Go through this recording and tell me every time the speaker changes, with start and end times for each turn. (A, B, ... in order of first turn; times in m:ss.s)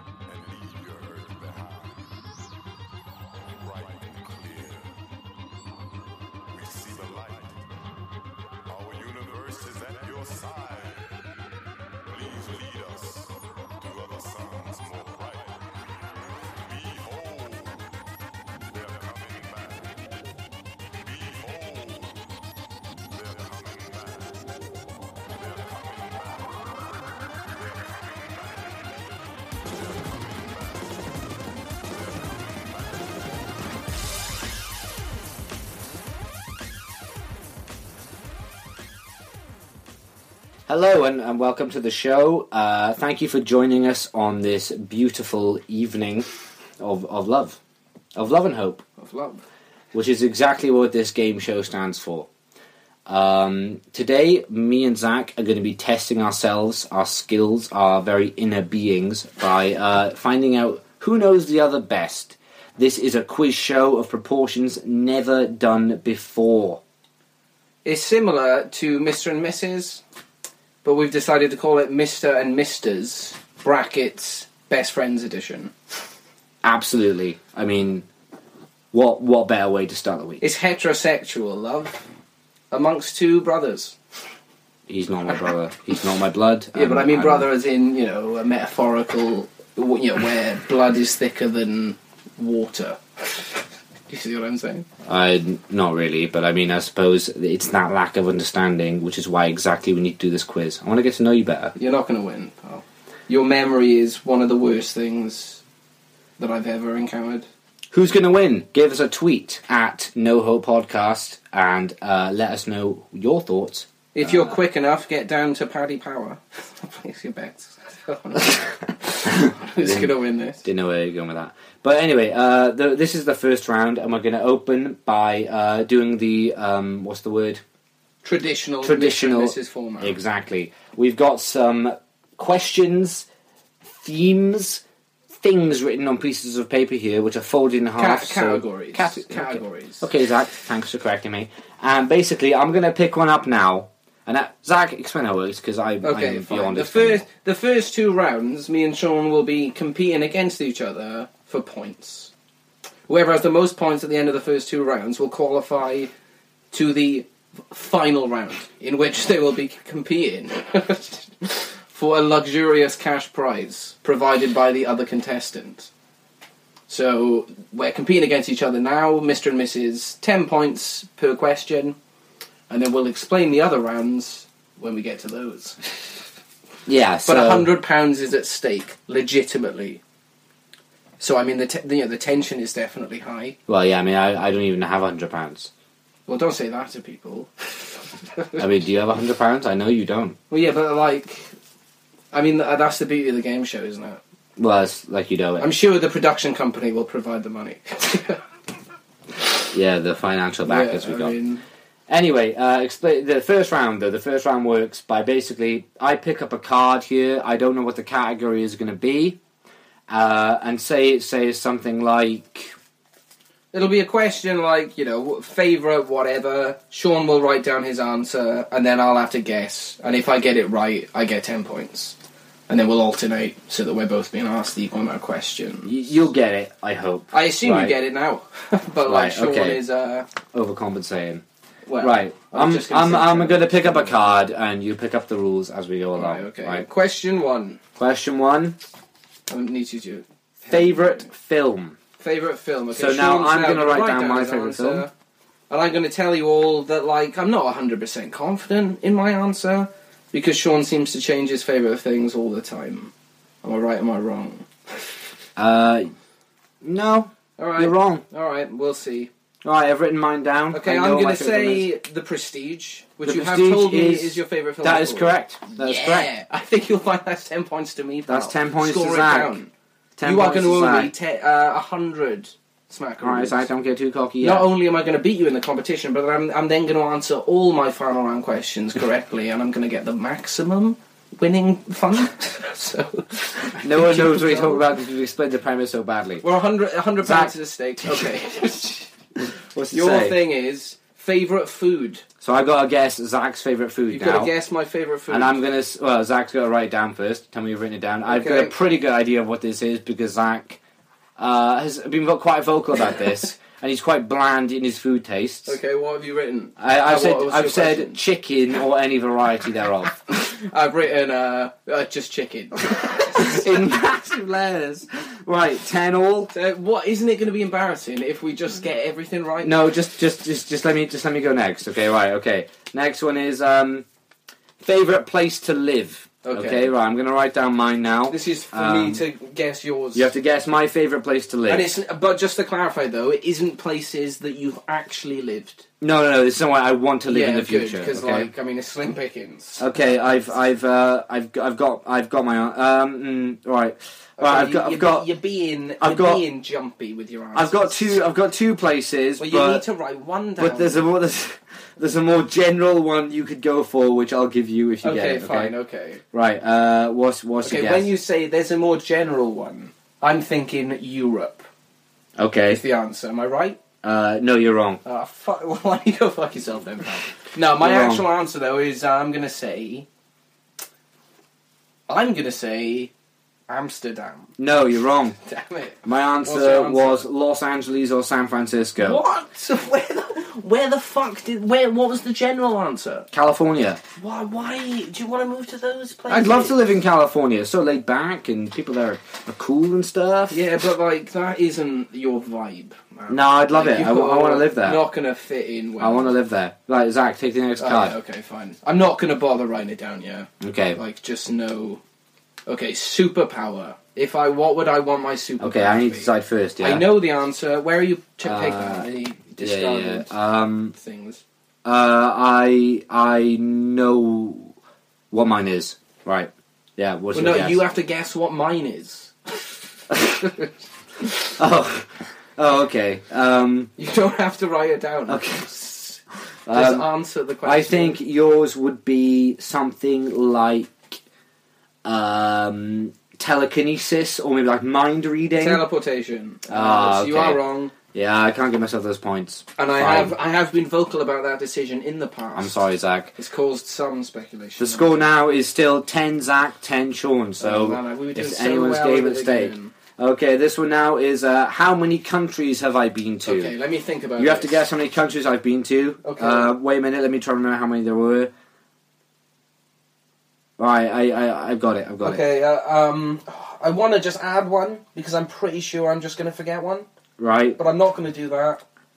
0:00.3-0:02.0 A
0:03.6-0:05.0 A
0:06.5-0:07.6 A
0:08.7-0:11.3 A
0:12.1-0:15.8 A
0:16.5-0:17.9 A
0:18.7-0:19.9 A
0:20.9-0:22.2 A
0:23.1-0:24.5 A
0:25.3-0:26.7 A
0:27.5-0:29.1 A
0:30.0-0:30.9 A
0:40.7-0:46.2 B
0:46.8-0:47.6 B
0:48.1-0:48.8 B
0:49.0-0:49.4 C
0:49.9-0:52.3 B
0:53.1-1:06.8 B
1:07.8-1:10.0 C
1:10.8-1:15.7 C
1:16.6-1:18.0 B
1:18.9-1:20.4 B
1:20.4-1:22.0 C
1:22.7-1:24.0 C
1:24.9-1:27.5 B
1:26.7-1:33.5 C
1:34.1-1:34.9 C
1:35.1-1:41.7 B
1:41.8-1:45.6 C
1:46.4-1:47.5 C
1:47.9-1:54.5 B
1:54.1-2:00.6 C
1:59.3-2:07.6 B
2:08.2-2:10.2 C
2:08.8-2:13.3 B
2:13.8-2:14.8 B
2:15.4-2:27.2 B
2:18.0-2:20.0 C
2:26.0-2:32.3 C
2:33.1-2:36.1 C
2:36.7-2:45.9 C
2:46.9-2:52.0 C
2:52.7-2:56.1 C
2:56.8-2:57.7 B
2:57.2-3:00.0 C
3:01.2-3:03.6 C
3:03.7-3:05.7 B
3:06.3-3:08.6 C
3:08.6-3:10.4 B
3:10.5-3:11.5 C
3:12.3-3:14.2 C
3:14.6-3:15.7 B
3:15.6-3:18.4 C
3:19.7-3:21.3 B
3:20.6-3:21.6 C
3:22.1-3:29.4 B
3:30.1-3:32.7 B
3:33.7-3:42.2 C
3:42.7-3:45.9 C
3:45.8-3:47.9 B
3:47.3-3:50.2 C
3:49.0-3:49.8 B
3:50.5-3:51.4 B
3:51.8-3:54.3 C
3:52.0-3:56.9 B
3:56.1-3:57.8 C
3:58.0-3:58.8 B
3:59.5-4:01.3 C
4:00.7-4:02.0 B
4:02.2-4:05.1 C
4:02.9-4:05.0 B
4:05.7-4:13.1 C
4:13.6-4:15.0 C
4:15.6-4:16.1 B
4:16.8-4:18.2 B
4:17.6-4:19.3 C
4:19.6-4:21.9 B
4:20.7-4:29.7 C
4:23.2-4:26.3 B
4:28.3-4:29.6 B
4:30.2-4:31.1 B
4:30.2-4:33.6 C
4:33.2-4:34.7 B
4:34.4-4:44.8 C
4:43.8-4:46.4 B
4:46.4-4:49.1 C
4:47.2-4:47.5 B
4:49.5-4:50.4 B
4:49.9-4:52.2 C
4:52.4-4:54.5 B
4:54.1-4:55.6 C
4:55.3-5:00.8 B
4:58.2-4:58.7 C
5:01.4-5:05.8 B
5:05.6-5:08.2 C
5:06.8-5:10.1 B
5:10.3-5:13.9 C
5:13.3-5:16.5 B
5:16.5-5:19.9 C
5:19.6-5:24.0 B
5:24.8-5:29.2 B
5:26.4-5:26.9 C
5:28.3-5:30.3 C
5:30.1-5:31.9 B
5:31.7-5:35.8 C
5:36.0-5:38.5 B
5:37.3-5:40.2 C
5:39.8-5:45.3 B
5:44.4-5:48.2 C
5:46.0-5:46.4 B
5:47.5-5:49.8 B
5:49.4-5:51.0 C
5:50.6-5:55.7 B
5:55.0-5:56.2 C
5:56.3-5:58.1 B
5:57.6-6:01.7 C
6:02.4-6:02.8 B
6:02.7-6:03.8 C
6:04.0-6:05.0 B
6:05.0-6:10.1 C
6:07.8-6:08.2 B
6:12.1-6:13.1 C
6:13.7-6:14.5 C
6:14.6-6:15.4 B
6:15.4-6:17.2 C
6:16.0-6:19.2 B
6:19.0-6:23.3 C
6:23.3-6:24.0 B
6:24.2-6:26.8 C
6:26.3-6:30.6 B
6:30.5-6:36.3 C
6:33.3-6:35.0 B
6:36.0-6:38.2 B
6:37.8-6:42.0 C
6:40.6-6:41.0 B
6:42.7-6:50.3 C
6:45.6-6:47.1 B
6:48.4-6:49.1 B
6:49.6-6:50.9 B
6:50.9-6:51.4 C
6:51.8-6:54.7 B
6:55.3-6:57.8 B
6:57.3-6:59.4 C
7:00.3-7:00.7 C
7:01.6-7:03.9 B
7:04.0-7:08.2 C
7:05.3-7:05.7 B
7:06.7-7:07.0 B
7:07.6-7:11.2 B
7:12.0-7:15.8 B
7:15.6-7:17.9 C
7:16.7-7:17.6 B
7:18.1-7:20.4 B
7:19.8-7:22.8 C
7:22.6-7:23.3 B
7:23.4-7:25.3 C
7:24.8-7:33.7 B
7:27.6-7:29.9 C
7:33.4-7:34.8 C
7:34.4-7:38.5 B
7:36.2-7:36.7 C
7:40.8-7:42.4 B
7:42.2-7:47.1 C
7:47.4-7:47.8 B
7:47.8-7:48.8 C